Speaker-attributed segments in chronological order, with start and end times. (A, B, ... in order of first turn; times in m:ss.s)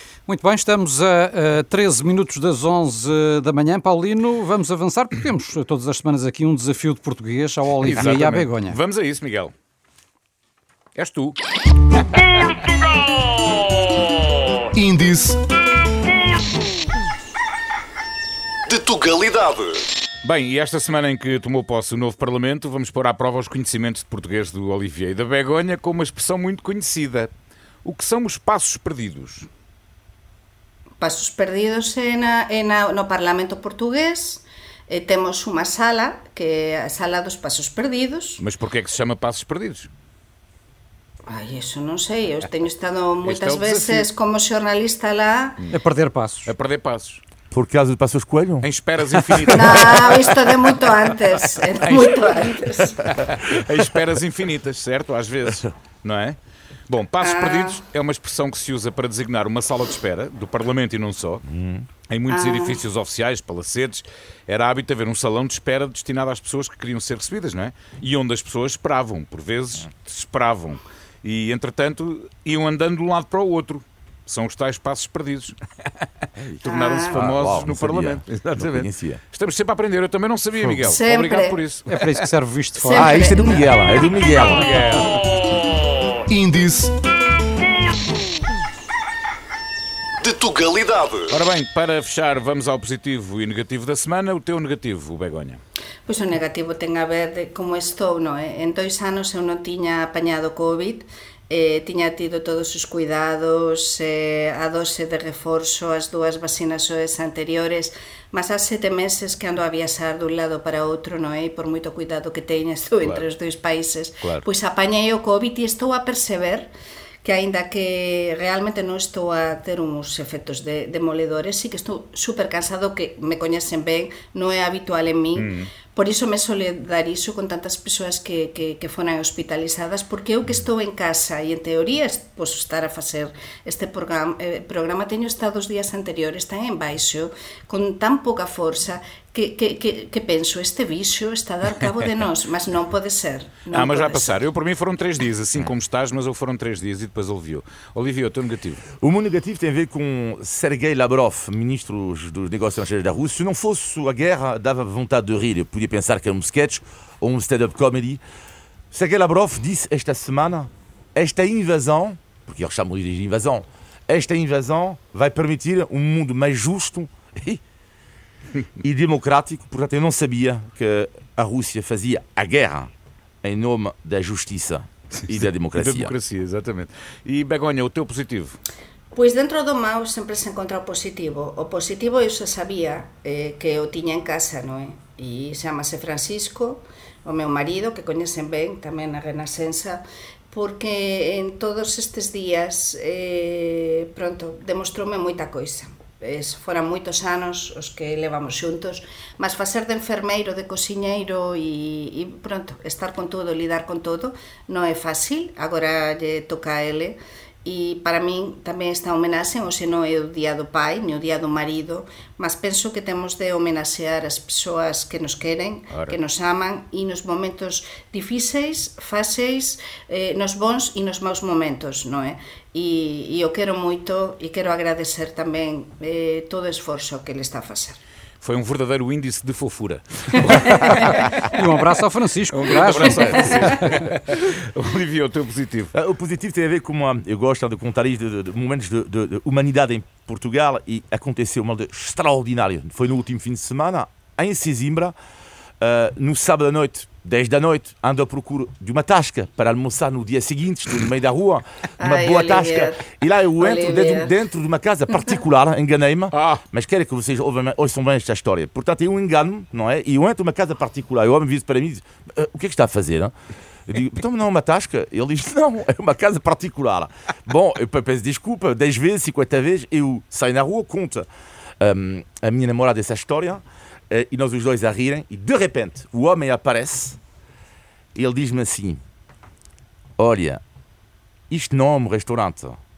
0:00.3-0:08.8 A
0:07.8-0:09.5 B
0:11.0-0:11.4 B
0:12.0-0:12.4 B
0:14.8-0:15.4 C
0:18.7-0:19.8 C
0:20.2-0:27.3 B
0:27.8-0:29.5 B
0:31.0-0:38.4 D
0:38.4-0:39.9 B
0:41.3-0:45.6 D
0:43.2-0:44.1 B
0:45.7-0:46.5 A
0:46.5-0:47.2 B
0:47.5-0:48.7 E
0:48.6-0:50.5 B
0:49.5-0:53.1 D
0:51.8-0:52.4 B
0:53.0-0:56.4 B
0:56.9-1:01.4 B
0:57.2-0:57.8 D
1:01.5-1:01.9 E
1:02.1-1:15.6 B
1:02.3-1:02.8 D
1:16.4-1:19.2 E
1:16.6-1:22.1 B
1:16.6-1:17.2 D
1:20.8-1:21.6 D
1:21.9-1:23.2 A
1:22.8-1:23.7 D
1:22.9-1:24.7 E
1:24.4-1:25.5 B
1:26.3-1:26.9 C
1:30.2-1:31.4 C
1:31.3-1:35.6 B
1:36.1-1:56.7 D
1:53.0-1:53.3 B
1:57.2-2:24.4 D
2:05.4-2:05.7 B
2:23.7-2:28.9 B
2:29.0-2:38.2 E
2:38.9-2:47.6 E
2:48.8-2:52.9 E
2:53.4-2:56.1 E
2:55.8-2:58.6 B
2:59.1-3:48.0 D
3:35.9-3:36.2 B
3:48.4-3:51.5 B
3:51.4-3:53.9 A
3:52.5-3:55.9 B
3:55.9-4:05.2 E
4:05.8-4:23.3 E
4:12.0-4:14.4 D
4:16.3-4:16.6 B
4:23.9-4:31.3 E
4:31.8-4:37.2 E
4:38.2-4:39.0 E
4:40.2-4:40.6 E
4:41.5-4:42.8 E